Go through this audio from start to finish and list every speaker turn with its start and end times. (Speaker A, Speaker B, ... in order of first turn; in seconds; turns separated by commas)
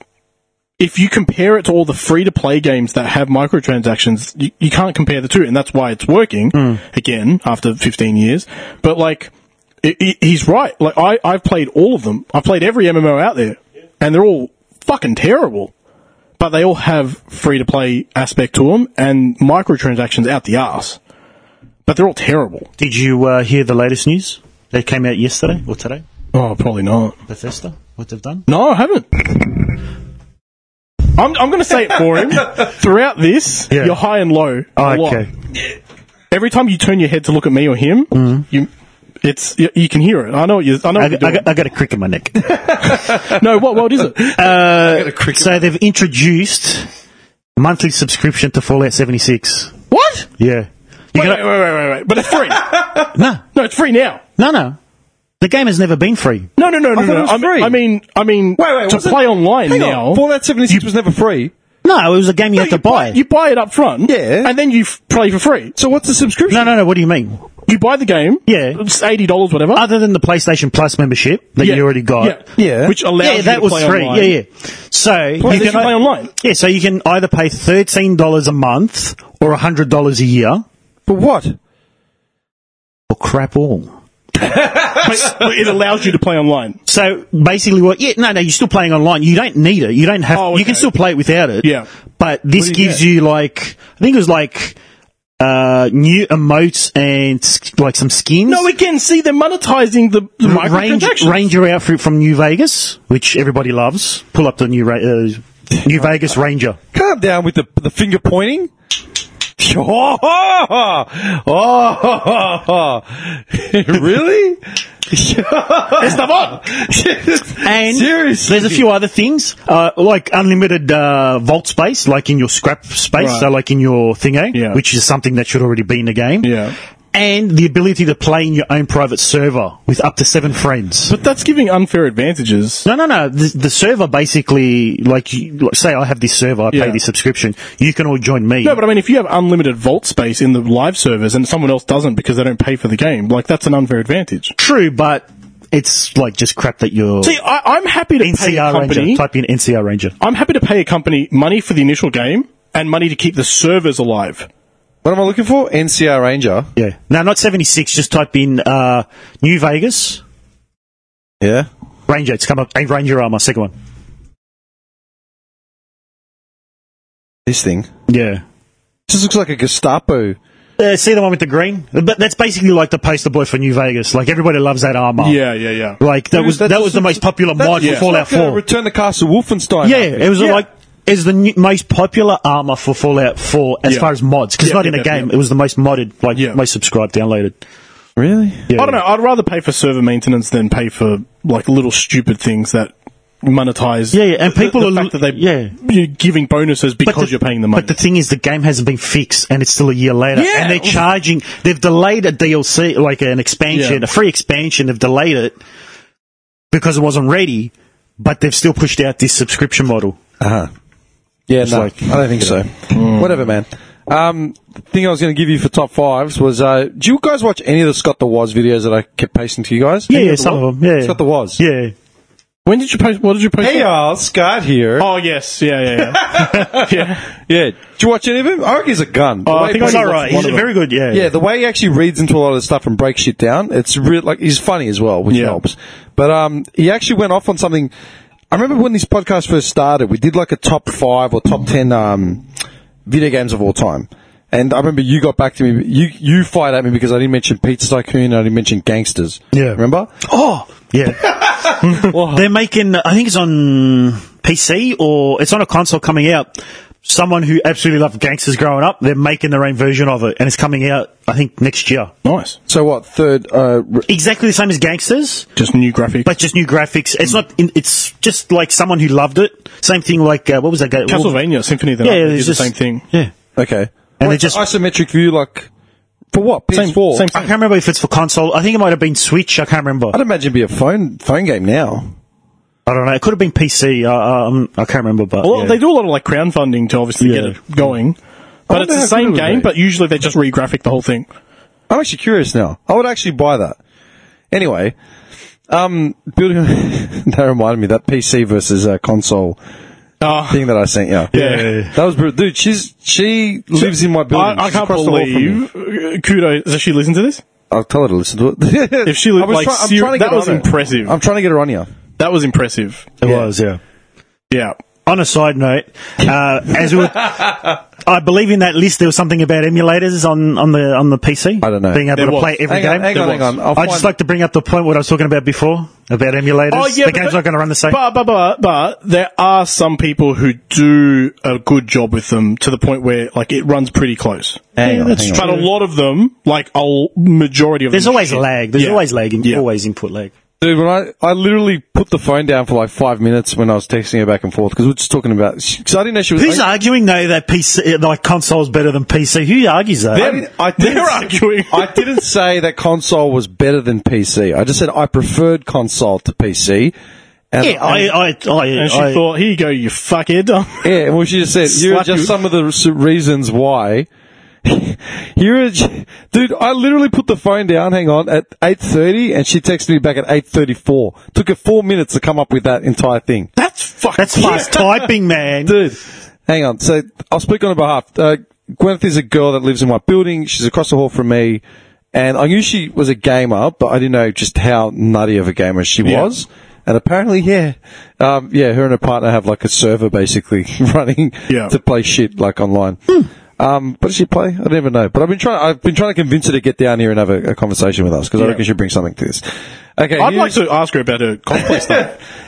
Speaker A: 0.8-9.3, Speaker B: 6.5-6.8, Speaker A: 9.8-15.7, Speaker A: 16.4-21.0, Speaker A: 21.9-22.7, Speaker B: 22.8-26.0, Speaker A: 26.3-27.1, Speaker B: 27.3-28.4, Speaker A: 28.5-29.8, Speaker A: 31.1-35.2, Speaker B: 33.7-34.0, Speaker B: 34.8-35.3, Speaker A: 36.3-38.7, Speaker B: 38.1-38.4, Speaker A: 39.2-41.5, Speaker B: 41.0-42.8, Speaker C: 42.6-45.7, Speaker A: 43.2-44.3, Speaker B: 44.3-46.9, Speaker B: 47.5-49.7, Speaker A: 49.9-50.3, Speaker B: 50.4-51.4, Speaker A: 51.1-54.2, Speaker C: 52.4-53.1, Speaker B: 53.1-53.4, Speaker B: 54.4-54.8, Speaker B: 55.4-56.5, Speaker A: 56.6-60.2, Speaker C: 56.9-57.8, Speaker C: 58.6-61.5, Speaker B: 61.8-63.2, Speaker A: 62.5-65.7, Speaker C: 64.0-64.5, Speaker C: 65.8-66.8, Speaker B: 66.5-67.4, Speaker A: 67.7-69.8, Speaker B: 68.5-68.8, Speaker B: 69.7-72.4, Speaker A: 71.6-74.3, Speaker C: 72.6-73.0, Speaker B: 73.2-80.6, Speaker C: 75.4-75.9, Speaker A: 75.4-76.3, Speaker C: 81.1-81.6, Speaker B: 83.1-83.9, Speaker C: 84.4-85.5, Speaker A: 84.9-86.8, Speaker B: 86.9-94.8, Speaker A: 90.3-90.9, Speaker C: 92.6-93.0, Speaker B: 95.4-98.7, Speaker A: 98.5-101.4, Speaker B: 100.4-106.8, Speaker C: 106.9-108.7, Speaker C: 109.6-118.9, Speaker A: 116.0-116.6, Speaker B: 117.6-126.5, Speaker A: 123.2-123.5, Speaker A: 124.5-124.8, Speaker A: 126.4-126.7, Speaker B: 127.1-131.1, Speaker A: 131.1-132.8, Speaker B: 132.8-138.8, Speaker A: 136.7-137.0, Speaker A: 138.6-144.5, Speaker B: 144.6-147.3, Speaker A: 147.2-149.2, Speaker B: 148.2-150.1, Speaker A: 150.2-154.5, Speaker C: 155.0-156.7, Speaker B: 156.8-160.2, Speaker C: 161.4-161.7, Speaker B: 162.1-163.7, Speaker C: 167.4-167.9, Speaker B: 168.1-168.4, Speaker C: 169.1-170.4, Speaker B: 170.8-175.4, Speaker A: 175.2-176.0, Speaker B: 176.0-178.6, Speaker C: 176.3-180.6, Speaker A: 177.8-178.1, Speaker B: 179.8-187.6, Speaker A: 183.8-185.3, Speaker A: 186.3-186.6, Speaker C: 188.2-188.7, Speaker B: 188.7-189.0, Speaker A: 188.8-197.9, Speaker B: 194.1-195.7, Speaker B: 197.0-205.6, Speaker C: 200.4-200.9, Speaker A: 200.6-200.9, Speaker A: 203.7-204.0, Speaker B: 206.7-210.2, Speaker C: 210.4-210.7, Speaker C: 211.5-220.2, Speaker B: 211.6-212.6, Speaker A: 212.9-213.3, Speaker B: 220.1-221.9, Speaker A: 220.1-220.6, Speaker C: 221.0-221.6, Speaker A: 222.7-223.9, Speaker C: 223.6-225.1, Speaker A: 225.0-227.3, Speaker C: 226.0-230.4, Speaker A: 229.4-230.7, Speaker B: 229.8-231.3, Speaker C: 231.1-237.9, Speaker A: 235.3-235.6, Speaker C: 238.5-242.4, Speaker C: 243.1-250.1, Speaker B: 249.5-262.1, Speaker C: 251.3-252.5, Speaker A: 251.8-252.1, Speaker A: 262.2-262.6, Speaker C: 262.7-264.1, Speaker B: 264.1-265.5, Speaker A: 265.6-266.3, Speaker B: 266.2-271.4, Speaker A: 271.1-273.0, Speaker B: 272.0-273.3, Speaker C: 273.6-275.7, Speaker B: 274.2-274.6, Speaker C: 276.3-277.3, Speaker A: 276.7-277.5, Speaker B: 277.3-280.2, Speaker C: 280.1-282.1, Speaker B: 282.9-285.8, Speaker A: 285.4-288.2, Speaker B: 287.2-287.6, Speaker C: 288.7-289.7, Speaker A: 288.7-291.3, Speaker C: 291.9-293.8, Speaker C: 294.5-294.9, Speaker C: 295.7-299.6, Speaker A: 300.2-300.6, Speaker C: 300.5-301.3, Speaker A: 301.3-301.8, Speaker B: 301.3-301.9, Speaker C: 301.9-305.6, Speaker A: 303.8-307.4, Speaker C: 307.7-311.9, Speaker A: 309.0-311.1, Speaker A: 312.2-313.1, Speaker B: 313.2-313.8, Speaker C: 313.2-313.5, Speaker A: 314.5-314.8, Speaker B: 315.1-328.0, Speaker C: 317.3-317.6, Speaker C: 321.6-322.1, Speaker A: 322.1-323.5, Speaker C: 322.7-324.1, Speaker A: 326.7-339.6, Speaker C: 334.8-335.5, Speaker B: 334.8-335.7, Speaker B: 337.9-340.3, Speaker C: 340.6-346.6, Speaker B: 346.4-350.4, Speaker C: 350.1-356.9, Speaker A: 350.8-352.1, Speaker C: 357.5-358.1, Speaker B: 357.6-359.2, Speaker A: 358.7-360.9, Speaker C: 360.8-364.1, Speaker A: 361.6-362.3, Speaker C: 364.6-373.5, Speaker A: 373.6-375.1, Speaker B: 374.2-375.8, Speaker C: 375.6-399.4, Speaker A: 386.0-386.3, Speaker C: 400.0-400.6, Speaker A: 400.2-402.1, Speaker C: 401.5-402.0